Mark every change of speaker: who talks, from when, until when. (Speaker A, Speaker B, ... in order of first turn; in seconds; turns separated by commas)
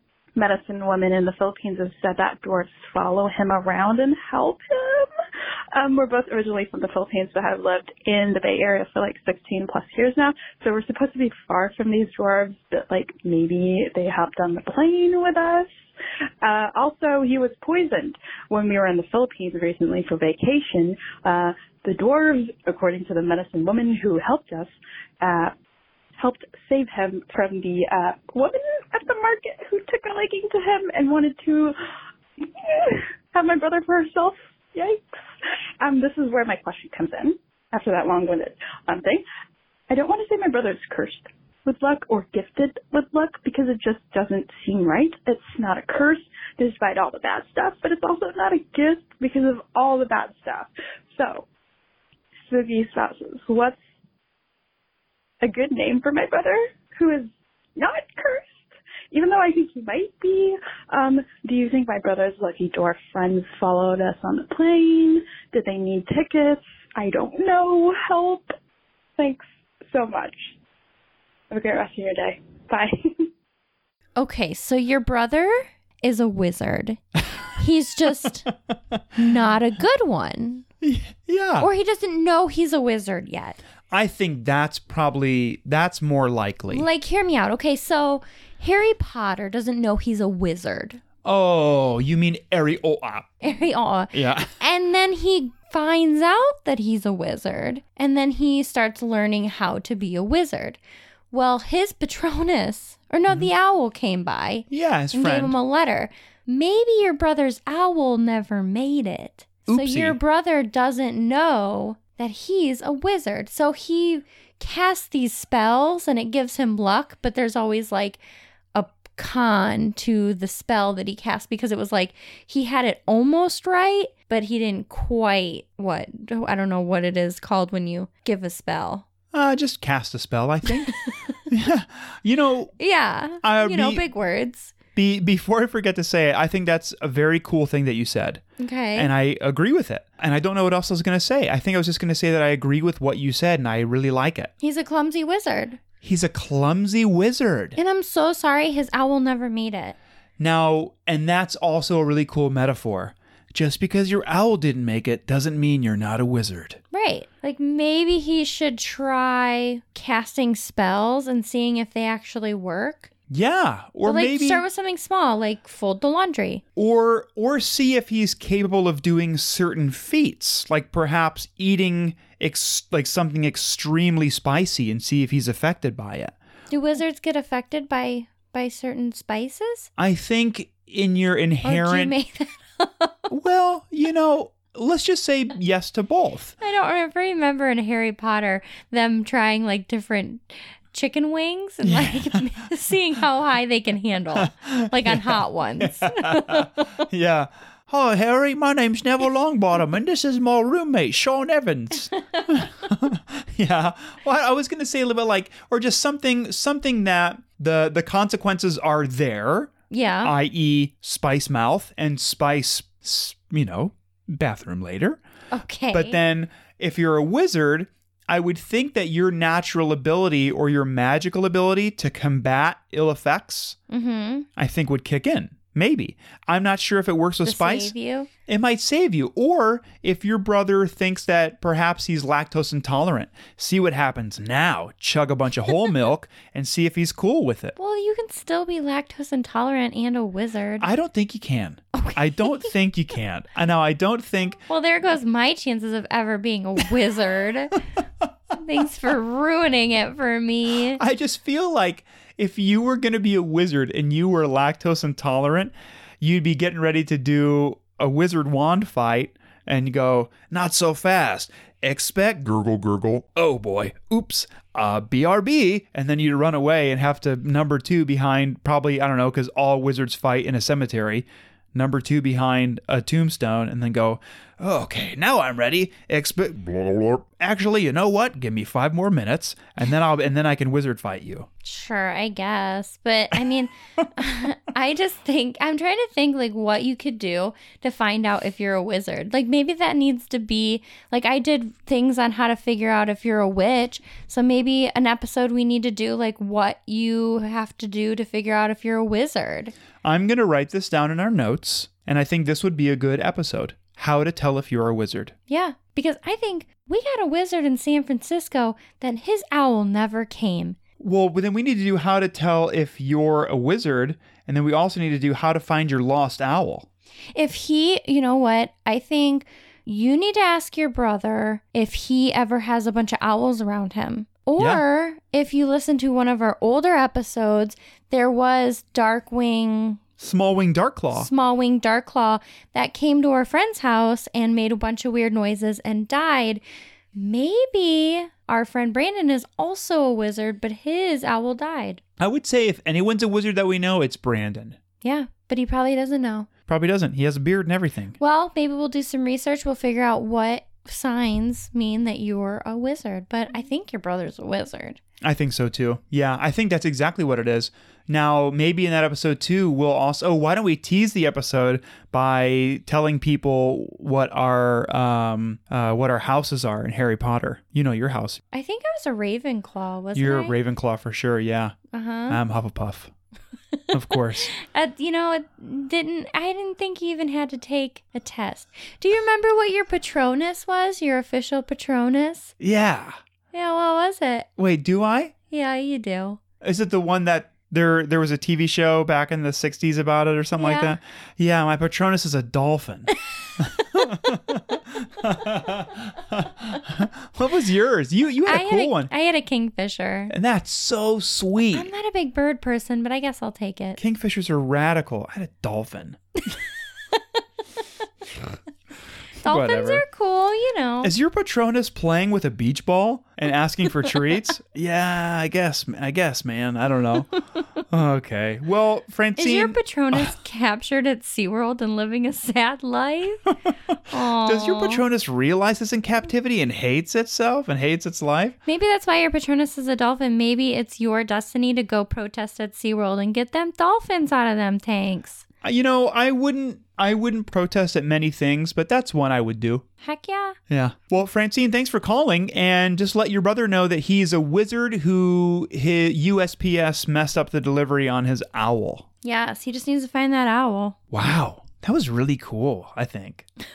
Speaker A: 0.4-5.1, Speaker A: 5.7-15.7, Speaker A: 16.4-25.5, Speaker A: 26.2-31.8, Speaker A: 32.5-35.2, Speaker A: 35.8-39.2, Speaker A: 39.9-51.5, Speaker A: 52.5-53.8, Speaker A: 55.4-68.5, Speaker A: 69.2-70.5, Speaker A: 71.5-73.3, Speaker B: 74.2-77.0, Speaker B: 77.5-78.5, Speaker B: 79.2-80.7, Speaker C: 80.8-81.7, Speaker B: 81.6-83.6, Speaker C: 83.9-86.9, Speaker B: 86.7-91.0, Speaker C: 91.2-93.4, Speaker B: 93.4-100.8, Speaker C: 94.1-94.5, Speaker B: 101.3-118.2, Speaker C: 104.7-105.6, Speaker C: 109.7-110.2, Speaker B: 118.8-129.1, Speaker C: 129.3-132.7, Speaker B: 131.1-131.4, Speaker B: 132.8-134.8, Speaker C: 133.4-134.1, Speaker C: 134.9-138.4, Speaker B: 138.6-139.1, Speaker C: 138.9-144.5, Speaker B: 144.6-145.8, Speaker C: 146.0-147.8, Speaker B: 147.8-150.0, Speaker C: 150.4-156.8, Speaker B: 156.9-163.1, Speaker C: 163.3-164.6, Speaker B: 164.0-166.6, Speaker C: 166.8-176.3, Speaker B: 176.7-179.9, Speaker C: 180.0-182.1, Speaker B: 181.6-183.2, Speaker C: 183.3-186.6, Speaker B: 186.6-197.1, Speaker C: 191.8-192.6, Speaker C: 194.4-215.2, Speaker B: 209.9-210.3, Speaker B: 215.5-216.2, Speaker C: 215.9-223.8, Speaker B: 223.9-224.5, Speaker C: 224.6-227.9, Speaker B: 227.4-228.3, Speaker C: 228.5-237.8, Speaker B: 237.8-240.9, Speaker C: 240.8-244.6, Speaker B: 241.9-242.7, Speaker B: 244.7-247.8, Speaker B: 248.5-251.0, Speaker C: 250.9-281.5, Speaker B: 281.6-299.7, Speaker C: 300.0-305.3, Speaker B: 305.5-310.8, Speaker C: 311.0-316.9, Speaker B: 317.4-330.0, Speaker C: 324.6-324.8, Speaker C: 330.2-331.3, Speaker B: 331.1-336.6, Speaker B: 337.1-342.0, Speaker C: 342.2-344.8, Speaker B: 345.0-346.5, Speaker C: 346.7-348.2, Speaker B: 348.2-355.0, Speaker C: 355.2-368.4, Speaker B: 368.5-370.6, Speaker C: 370.1-371.8, Speaker B: 371.9-372.4, Speaker C: 372.3-373.1, Speaker C: 373.9-374.5, Speaker B: 374.5-382.5, Speaker C: 382.6-383.2, Speaker B: 383.5-384.5, Speaker C: 384.6-385.3, Speaker B: 385.5-386.4, Speaker C: 386.6-399.1, Speaker B: 390.6-391.0, Speaker B: 398.5-400.3, Speaker C: 400.3-401.9, Speaker B: 401.7-404.0, Speaker C: 404.0-406.2, Speaker C: 409.4-410.0, Speaker B: 409.4-411.1, Speaker C: 411.0-417.4, Speaker C: 417.9-420.2, Speaker B: 419.4-423.4, Speaker B: 424.1-425.0, Speaker C: 424.4-428.6, Speaker B: 428.7-435.4, Speaker C: 435.6-439.9, Speaker B: 440.0-440.6, Speaker C: 440.7-449.1, Speaker B: 449.2-451.0, Speaker C: 451.1-453.5